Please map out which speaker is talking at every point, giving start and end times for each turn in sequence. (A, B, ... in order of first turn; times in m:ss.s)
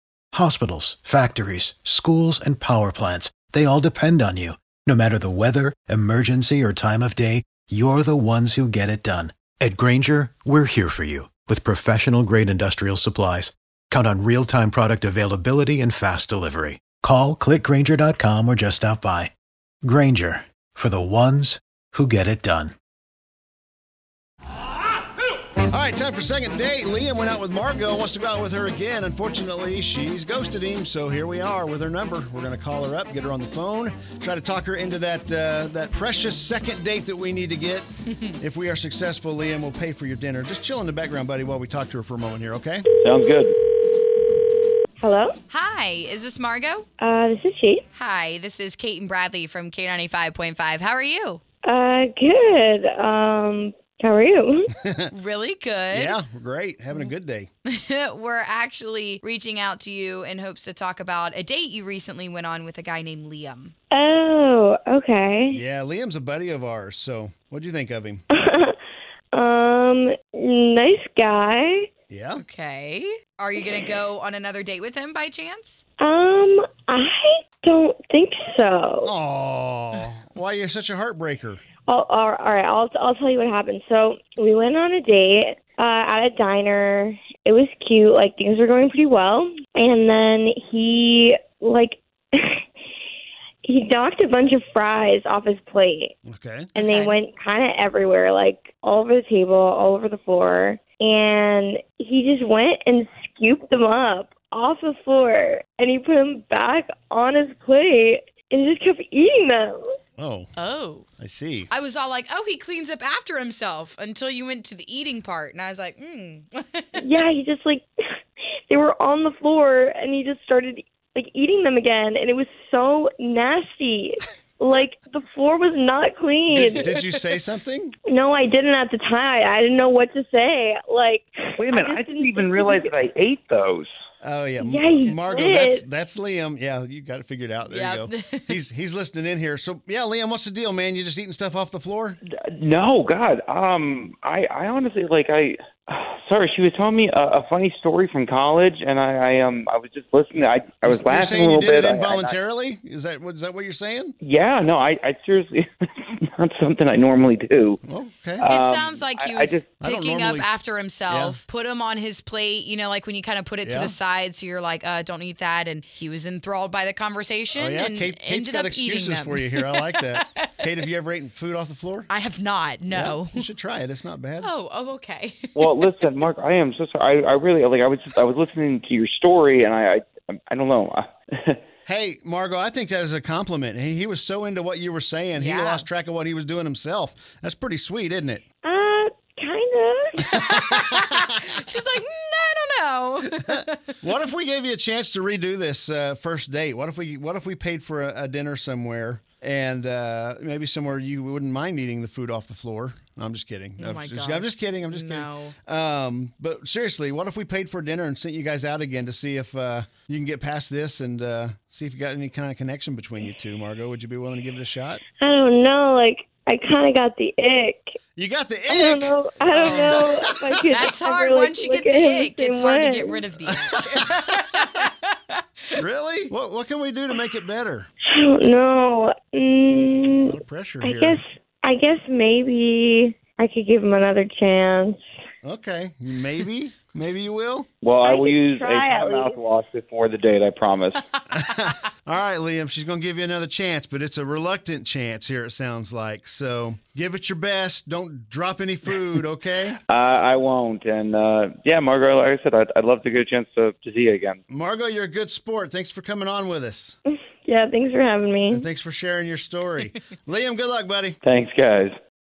0:00.3-0:19.3 A
0:19.8-0:22.8 A
0:25.7-0:37.9 B
0:38.4-0:42.8 B
0:43.0-0:43.6 C
0:45.0-0:45.3 D
0:45.5-0:46.9 E
0:47.0-0:47.8 D
0:47.9-0:51.4 E
0:51.7-0:54.7 D
0:55.1-0:56.2 E
0:55.9-0:57.5 B
0:57.7-1:03.7 E
1:03.9-1:05.6 D
1:05.5-1:08.2 B
1:08.3-1:08.8 D
1:09.3-1:11.9 D
1:12.1-1:12.4 B
1:12.4-1:15.8 E
1:16.0-1:19.1 D
1:19.0-1:21.6 B
1:21.9-1:32.6 D
1:33.6-1:36.1 D
1:36.3-1:36.7 B
1:36.8-1:37.2 E
1:36.8-1:49.9 D
1:50.2-1:50.5 B
1:50.6-1:51.1 E
1:51.2-1:51.7 B
1:51.7-1:57.0 E
1:57.0-1:57.8 D
1:58.7-2:06.9 D
2:06.5-2:07.9 B
2:08.1-2:12.9 D
2:11.6-2:13.9 C
2:14.2-2:22.2 B
2:14.6-2:15.8 D
2:17.7-2:18.6 E
2:22.6-2:32.4 C
2:30.8-2:34.2 B
2:34.2-2:37.8 C
2:37.8-2:38.4 B
2:38.4-2:39.7 C
2:38.5-2:50.4 E
2:39.8-2:40.5 B
2:41.1-2:41.4 B
2:43.6-2:44.0 B
2:47.6-2:52.1 B
2:52.1-2:53.4 E
2:52.9-2:54.5 B
2:54.4-2:56.1 E
2:55.6-3:01.6 C
3:01.8-3:08.4 B
3:05.3-3:05.9 E
3:08.6-3:10.3 D
3:10.2-3:13.9 E
3:14.0-3:35.0 B
3:23.8-3:25.5 E
3:35.2-3:38.0 D
3:38.2-3:40.2 B
3:38.7-3:43.2 D
3:39.5-3:40.1 E
3:40.7-3:45.4 E
3:43.5-3:44.1 B
3:45.8-3:47.9 B
3:48.1-3:55.0 D
3:50.2-3:51.2 B
3:55.4-3:57.7 B
3:57.8-4:01.0 C
3:58.0-3:59.4 D
4:01.3-4:09.8 B
4:09.9-4:14.4 C
4:14.5-4:17.0 B
4:17.4-4:18.7 D
4:18.5-4:21.2 B
4:21.2-4:22.0 C